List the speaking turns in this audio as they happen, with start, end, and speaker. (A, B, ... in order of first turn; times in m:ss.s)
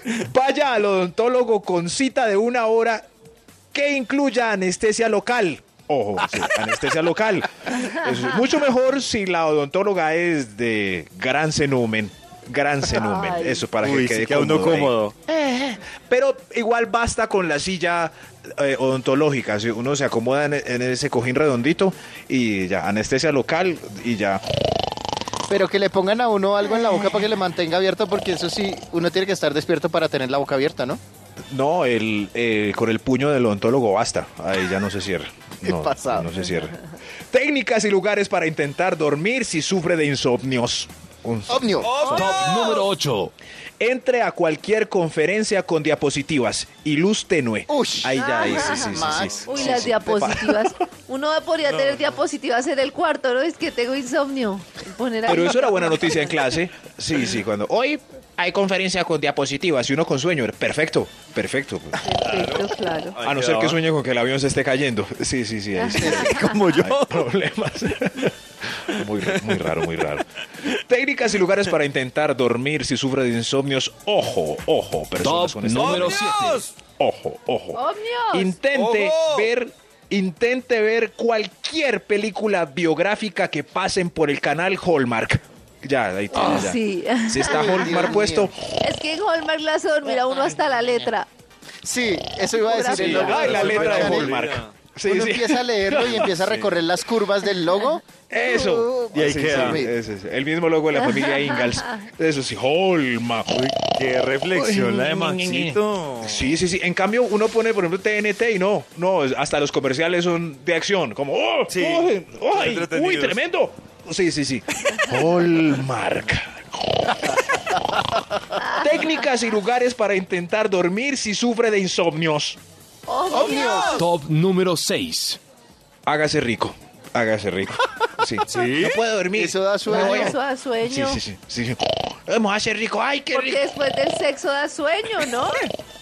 0:00.2-0:03.1 A
0:03.7-0:24.4 A
0:12.9-0:13.7 B
0:13.8-0:15.1 C
0:25.5-0:31.0 D
0:31.5-0:36.8 A
0:35.6-0:36.3 D
0:37.3-0:41.7 A
0:41.5-0:41.9 D
0:41.8-0:42.8 C
0:42.0-0:42.5 B
0:42.1-0:43.3 E
0:43.8-0:50.7 A
0:47.7-0:50.1 D
0:48.1-0:56.4 B
0:51.6-0:52.2 C
0:55.2-1:02.0 A
1:02.0-1:03.2 B
1:02.2-1:03.8 C
1:03.2-1:16.2 A
1:05.8-1:06.6 B
1:06.0-1:06.3 D
1:06.3-1:07.2 C
1:15.2-1:16.6 E
1:15.7-1:16.7 C
1:17.0-1:28.5 A
1:17.7-1:18.6 B
1:18.7-1:19.5 C
1:26.3-1:28.2 B
1:27.4-1:28.5 D
1:28.8-1:31.3 B
1:31.8-1:34.4 D
1:32.6-1:33.3 B
1:32.9-1:36.4 A
1:33.0-1:34.7 C
1:35.0-1:39.9 D
1:36.1-1:36.8 C
1:38.3-1:43.6 A
1:39.1-1:39.8 C
1:40.9-1:41.9 B
1:43.5-1:46.6 C
1:44.5-1:57.4 A
1:51.7-1:53.4 C
1:58.6-1:59.0 B
1:58.8-2:02.6 A
2:03.0-2:04.0 B
2:03.3-2:04.0 D
2:03.3-2:04.0 C
2:04.0-2:05.4 E
2:06.0-2:13.6 A
2:08.5-2:09.0 C
2:09.3-2:10.4 D
2:09.9-2:11.2 B
2:13.3-2:15.6 B